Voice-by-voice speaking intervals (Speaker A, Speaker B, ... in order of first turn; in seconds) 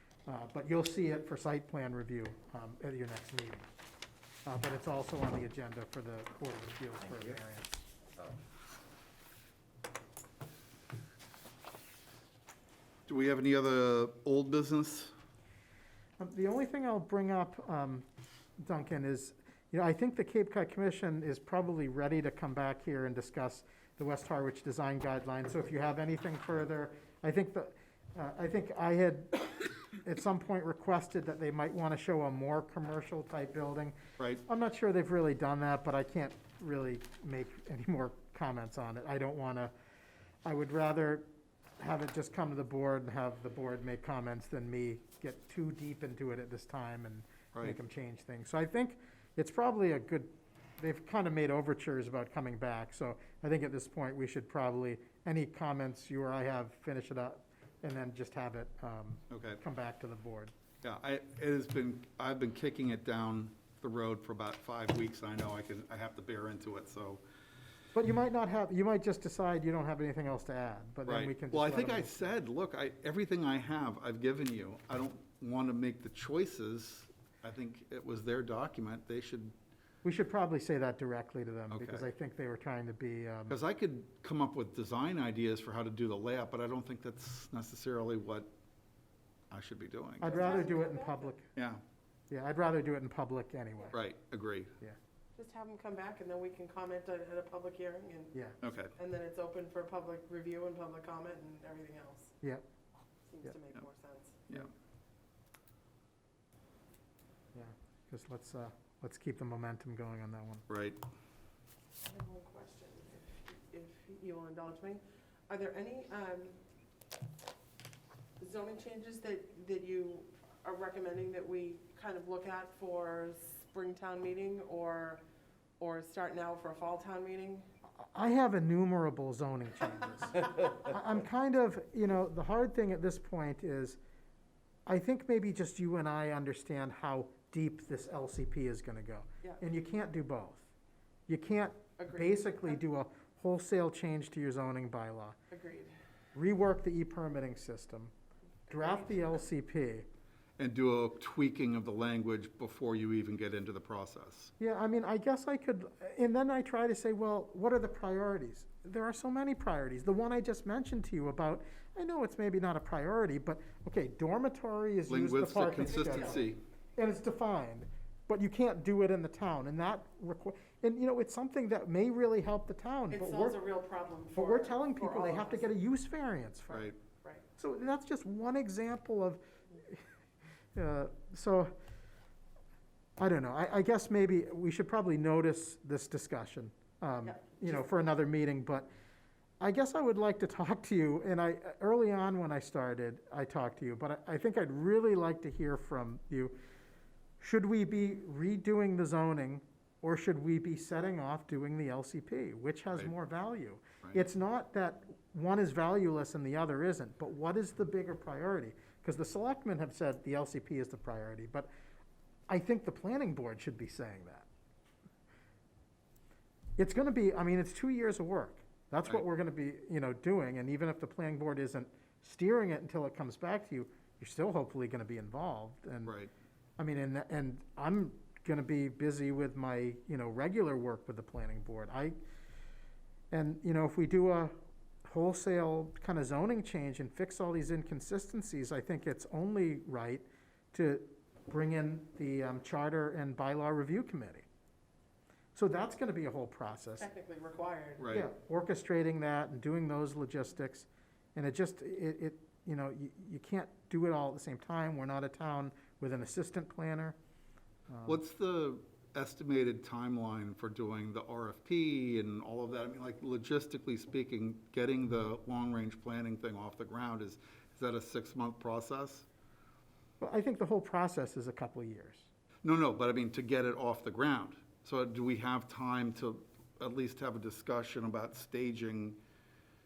Speaker A: 0.2-3.7, 4.4-7.7, 16.2-18.1, 18.6-39.7, 40.4-41.2, 41.8-60.5, 67.9-72.3, 80.0-83.6, 90.2-91.5, 92.3-94.0, 107.5-110.6, 128.0-134.0, 134.8-140.7, 141.3-145.4, 146.3-148.1, 148.7-150.1, 154.6-166.4, 167.0-173.6, 174.3-176.9, 177.6-180.0, 180.7-181.7, 183.2-188.9, 189.6-196.6, 197.4-211.7, 212.5-214.5, 216.8-226.1, 226.8-232.1, 233.3-244.4, 245.5-247.1, 248.1-257.1, 257.9-258.2, 270.2-272.3
Speaker B: 13.1-15.1, 59.3-59.6, 60.8-67.2, 71.0-79.5, 81.7-82.1, 83.5-88.5, 89.5-90.5, 91.5-91.8, 93.9-94.7, 98.6-98.9, 110.7-111.0, 150.6-154.5, 165.1-166.6, 176.7-176.9, 226.1-226.3, 248.0-248.3, 258.1-269.2, 272.6-279.2
Speaker C: 90.2-91.3, 95.3-98.3, 99.0-102.3, 103.3-104.5, 112.0-116.6, 118.4-125.2, 125.8-127.7, 142.0-142.7, 145.5-145.9, 148.7-149.4, 165.8-166.4, 173.1-175.7, 176.7-177.5, 187.2-187.7, 247.0-248.2